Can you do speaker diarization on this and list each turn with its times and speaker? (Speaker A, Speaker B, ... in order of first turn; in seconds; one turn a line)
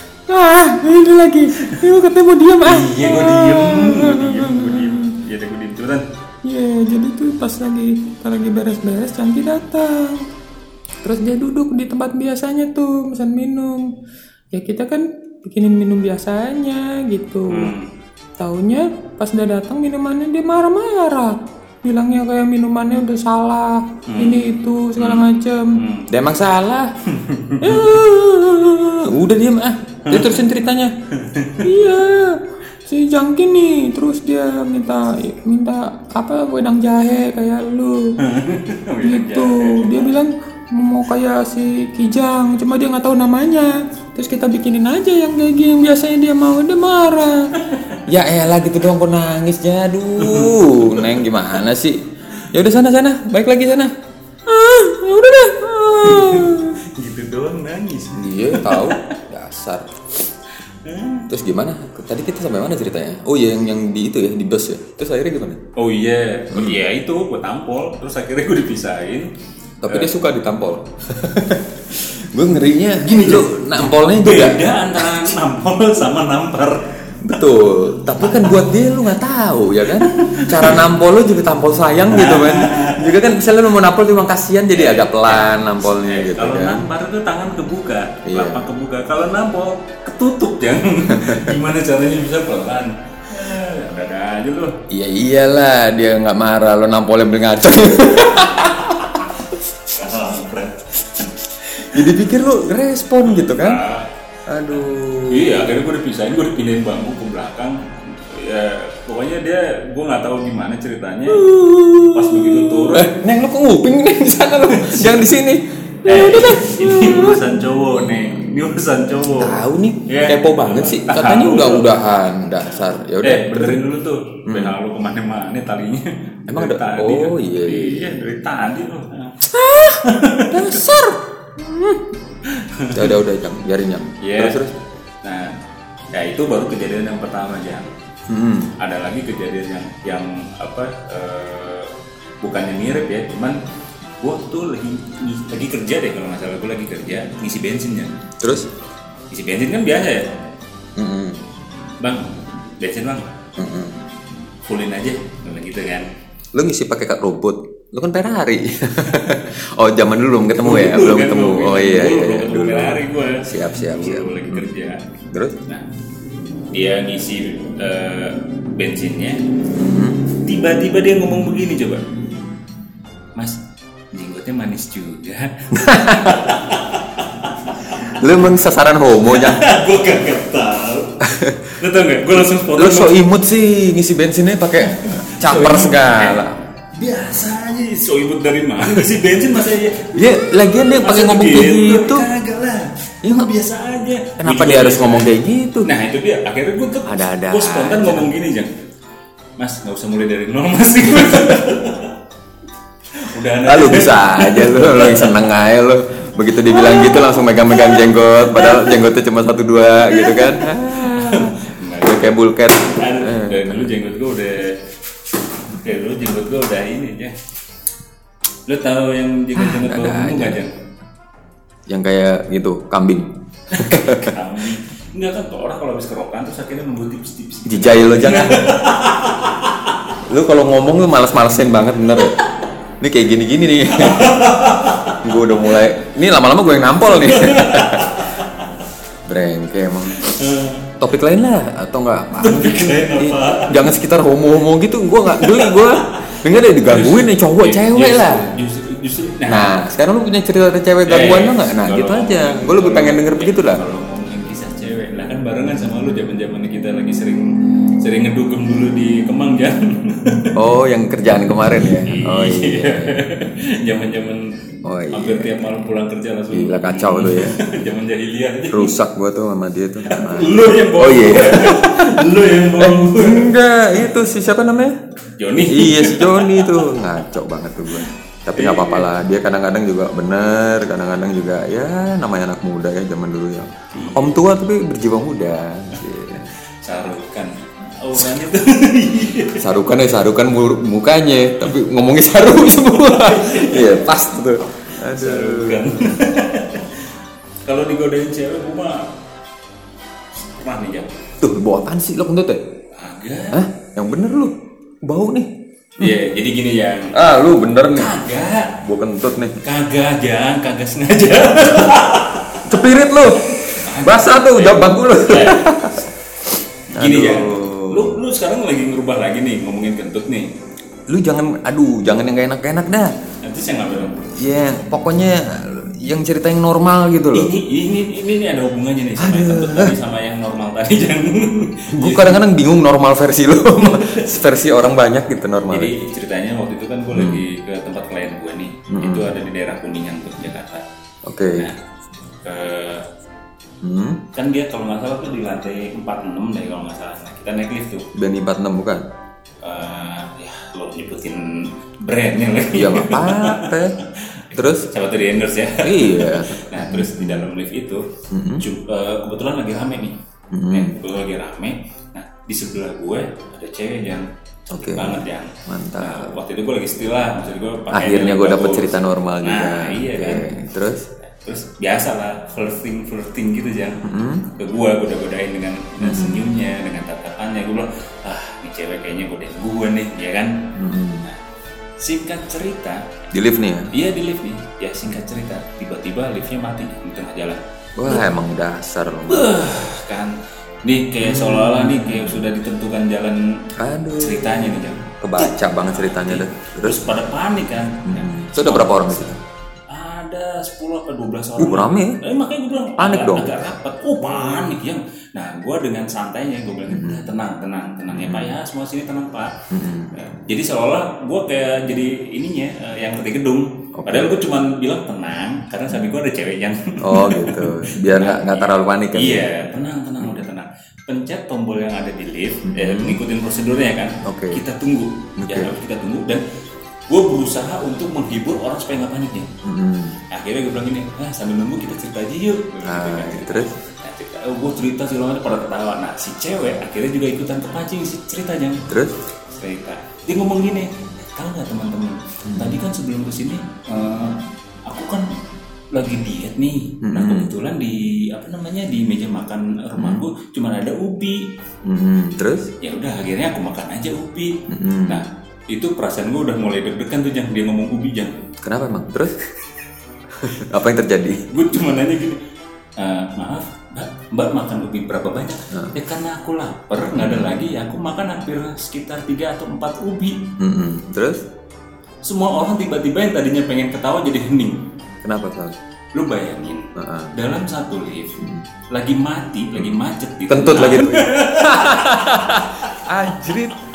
Speaker A: 0.3-5.0
Speaker B: 1.6-1.8
Speaker B: 2.6-6.0
Speaker A: 6.5-10.3
Speaker A: 11.0-13.9
Speaker A: 14.5-17.7
Speaker B: 17.5-17.9
Speaker A: 18.4-25.8
Speaker B: 24.1-26.1
Speaker C: 26.1-26.9
Speaker B: 27.1-27.9
Speaker A: 27.6-29.1
Speaker C: 29.1-30.9
Speaker B: 30.1-30.4
Speaker B: 31.1-31.7
Speaker A: 31.6-38.2
Speaker B: 38.2-40.1
Speaker A: 39.0-47.5
Speaker B: 47.6-48.0
Speaker C: 48.1-53.9
Speaker B: 50.2-51.2
Speaker A: 54.5-56.8
Speaker B: 56.0-59.2
Speaker C: 58.1-59.9
Speaker B: 60.7-61.3
Speaker C: 61.3-65.6
Speaker B: 65.8-69.3
Speaker C: 66.5-66.8
Speaker C: 69.8-75.3
Speaker B: 73.0-76.9
Speaker C: 77.2-86.8
Speaker B: 78.2-78.7
Speaker B: 79.9-80.9
Speaker B: 82.1-83.2
Speaker B: 84.7-94.8
Speaker C: 88.2-88.7
Speaker C: 91.1-91.6
Speaker C: 94.9-99.2
Speaker B: 98.9-99.2
Speaker B: 99.9-102.1
Speaker C: 101.8-103.8
Speaker B: 103.2-104.1
Speaker C: 104.5-105.8
Speaker B: 105.3-111.5
Speaker A: 111.4-112.7
Speaker B: 112.1-113.2
Speaker C: 112.9-116.1
Speaker B: 114.7-115.3
Speaker B: 116.0-121.9
Speaker A: 116.1-117.4
Speaker C: 118.0-118.4
Speaker C: 119.4-123.8
Speaker B: 123.2-129.5
Speaker C: 124.5-124.8
Speaker C: 126.5-128.2
Speaker A: 129.5-132.0
Speaker B: 130.0-130.8
Speaker B: 132.4-133.2
Speaker C: 132.9-134.7
Speaker B: 134.2-134.6
Speaker B: 135.2-135.5
Speaker B: 136.1-137.9
Speaker C: 138.3-138.7
Speaker B: 138.8-143.6
Speaker B: 144.2-148.2
Speaker C: 148.4-148.7
Speaker B: 149.3-150.3
Speaker C: 151.0-151.4
Speaker B: 152.0-153.3
Speaker C: 153.6-154.0
Speaker B: 154.7-156.1
Speaker C: 156.5-164.7
Speaker B: 160.6-165.0
Speaker C: 165.3-165.6
Speaker B: 166.7-169.4
Speaker C: 169.7-170.3
Speaker B: 170.4-172.1
Speaker B: 173.4-178.2
Speaker C: 175.7-176.6
Speaker C: 178.1-179.7
Speaker B: 179.3-181.2
Speaker C: 181.2-181.8
Speaker B: 181.8-183.2
Speaker C: 182.7-186.6
Speaker B: 185.0-195.3
Speaker C: 190.1-192.3
Speaker C: 193.2-193.5
Speaker C: 194.4-195.9
Speaker B: 195.8-198.8
Speaker C: 197.1-198.3
Speaker B: 199.6-202.2
Speaker B: 203.2-205.5
Speaker C: 203.6-213.9
Speaker A: 206.9-207.2
Speaker B: 210.1-214.8
Speaker B: 215.7-217.4
Speaker B: 218.7-220.7
Speaker C: 219.6-220.6
Speaker C: 221.9-224.4
Speaker B: 223.7-229.9
Speaker C: 227.7-228.9
Speaker C: 230.2-232.4
Speaker C: 233.0-234.5
Speaker B: 233.9-235.7
Speaker C: 235.2-238.3
Speaker B: 237.1-238.8
Speaker C: 239.3-240.4
Speaker B: 240.1-240.9
Speaker C: 241.0-248.5
Speaker B: 242.4-243.9
Speaker B: 245.3-249.7
Speaker C: 249.5-253.8
Speaker B: 251.1-260.5
Speaker C: 260.6-263.2
Speaker B: 262.0-264.6
Speaker C: 264.8-265.6
Speaker B: 265.1-269.0
Speaker C: 266.5-267.6
Speaker C: 268.7-272.3
Speaker B: 270.0-273.5
Speaker C: 272.8-275.0
Speaker B: 275.4-277.1
Speaker C: 275.6-286.5
Speaker B: 277.9-279.1
Speaker B: 283.9-284.4
Speaker B: 286.8-289.7
Speaker C: 289.6-296.2
Speaker B: 292.6-294.2
Speaker B: 294.8-297.1
Speaker B: 297.7-299.1
Speaker B: 300.4-301.2
Speaker C: 301.4-302.6
Speaker B: 302.9-303.6
Speaker C: 303.5-306.1
Speaker B: 306.0-308.8
Speaker C: 307.1-308.2
Speaker C: 308.8-309.6
Speaker B: 309.6-312.8
Speaker C: 312.6-316.0
Speaker B: 313.6-316.0
Speaker B: 316.9-320.5
Speaker C: 316.9-318.2
Speaker C: 321.1-323.1
Speaker B: 323.4-324.4
Speaker C: 324.4-327.5
Speaker B: 327.3-332.4
Speaker C: 329.2-329.9
Speaker C: 331.9-335.9
Speaker B: 333.8-334.4
Speaker B: 335.7-340.9
Speaker C: 337.1-337.4
Speaker C: 338.9-339.3
Speaker C: 341.2-341.7
Speaker B: 341.5-341.8
Speaker B: 342.4-343.1
Speaker C: 343.8-344.2
Speaker B: 344.3-348.1
Speaker C: 348.1-349.0
Speaker B: 349.6-358.1
Speaker C: 352.7-354.0
Speaker C: 354.6-354.9
Speaker C: 355.8-357.5
Speaker C: 358.3-358.6
Speaker B: 358.6-360.2
Speaker C: 360.5-361.0
Speaker B: 360.7-370.5
Speaker C: 364.7-366.4
Speaker C: 367.9-371.1
Speaker B: 371.2-381.4
Speaker C: 374.0-374.5
Speaker C: 376.0-376.5
Speaker C: 380.8-381.3
Speaker B: 382.0-383.2
Speaker C: 383.3-383.9
Speaker B: 383.9-388.3
Speaker C: 388.0-389.6
Speaker B: 389.3-393.7
Speaker C: 391.2-392.5
Speaker C: 393.8-397.2
Speaker B: 394.2-399.3
Speaker C: 398.1-399.4
Speaker B: 399.9-409.5
Speaker C: 401.6-402.2
Speaker C: 403.0-403.6
Speaker C: 404.2-404.7
Speaker C: 406.9-407.3
Speaker C: 408.1-408.6
Speaker C: 409.7-410.1
Speaker B: 410.1-426.4
Speaker C: 414.0-414.4
Speaker C: 417.0-419.6
Speaker C: 422.7-423.2
Speaker C: 424.2-424.6
Speaker C: 425.4-425.8
Speaker B: 427.1-429.5
Speaker C: 429.6-430.2
Speaker B: 430.3-438.9
Speaker C: 432.8-433.8
Speaker C: 438.9-439.2
Speaker B: 439.5-445.4
Speaker C: 442.5-442.8
Speaker B: 445.9-451.5
Speaker C: 447.0-447.6
Speaker C: 450.0-450.2
Speaker C: 451.9-452.7
Speaker B: 452.8-458.4
Speaker C: 454.7-455.2
Speaker C: 458.6-459.4
Speaker C: 460.3-461.5
Speaker B: 461.5-462.4
Speaker B: 463.0-470.5
Speaker C: 467.2-467.5
Speaker C: 470.6-471.4
Speaker B: 472.2-474.9
Speaker C: 475.2-475.8
Speaker B: 476.1-482.9
Speaker C: 476.9-477.3
Speaker C: 480.5-483.8